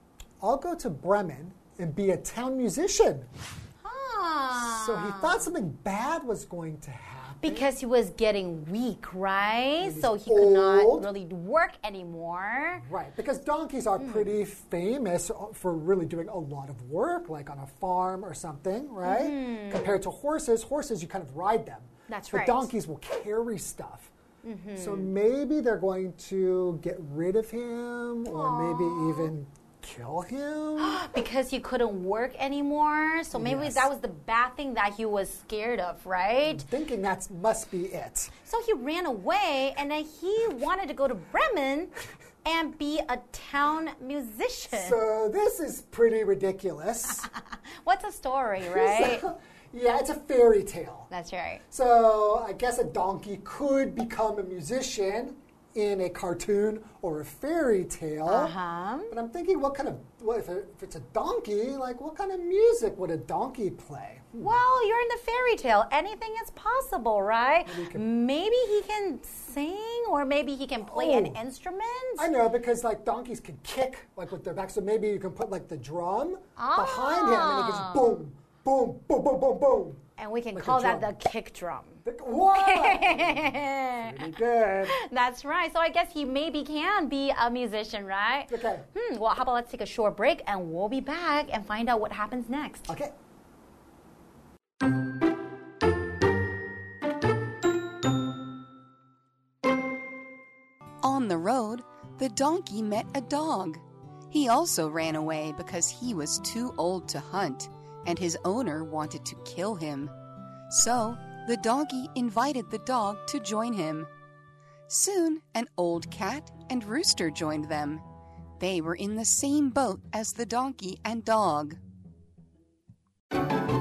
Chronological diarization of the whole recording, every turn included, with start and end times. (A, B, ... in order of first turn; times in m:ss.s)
0:00.4-0:03.3 A
0:03.8-0:05.5 B
0:04.6-0:07.7 A
0:07.4-0:12.8 B
0:09.8-0:11.1 A
0:12.8-0:24.1 A
0:14.0-0:14.3 B
0:19.0-0:20.0 B
0:22.1-0:22.7 B
0:24.4-0:25.1 B
0:24.8-0:31.0 A
0:28.3-0:29.3 B
0:30.8-0:36.7 B
0:33.3-0:33.9 A
0:36.5-0:38.3 A
0:38.4-0:41.9 B
0:42.4-0:45.0 B
0:44.7-0:47.3 A
0:47.8-0:49.3 B
0:48.6-0:51.1 A
0:51.1-0:51.6 B
0:51.7-0:58.5 A
0:58.3-0:59.1 B
0:59.1-1:04.6 A
1:04.4-1:12.3 B
1:07.7-1:08.0 A
1:10.8-1:11.4 A
1:12.2-1:20.0 A
1:16.6-1:18.2 B
1:20.2-1:24.2 B
1:20.5-1:21.1 A
1:22.0-1:25.0 A
1:24.9-1:32.9 B
1:28.5-1:28.8 A
1:32.9-1:33.1 A
1:41.0-1:50.1 C
1:50.7-1:54.1 C
1:54.9-1:58.0 C
1:58.6-2:01.8 C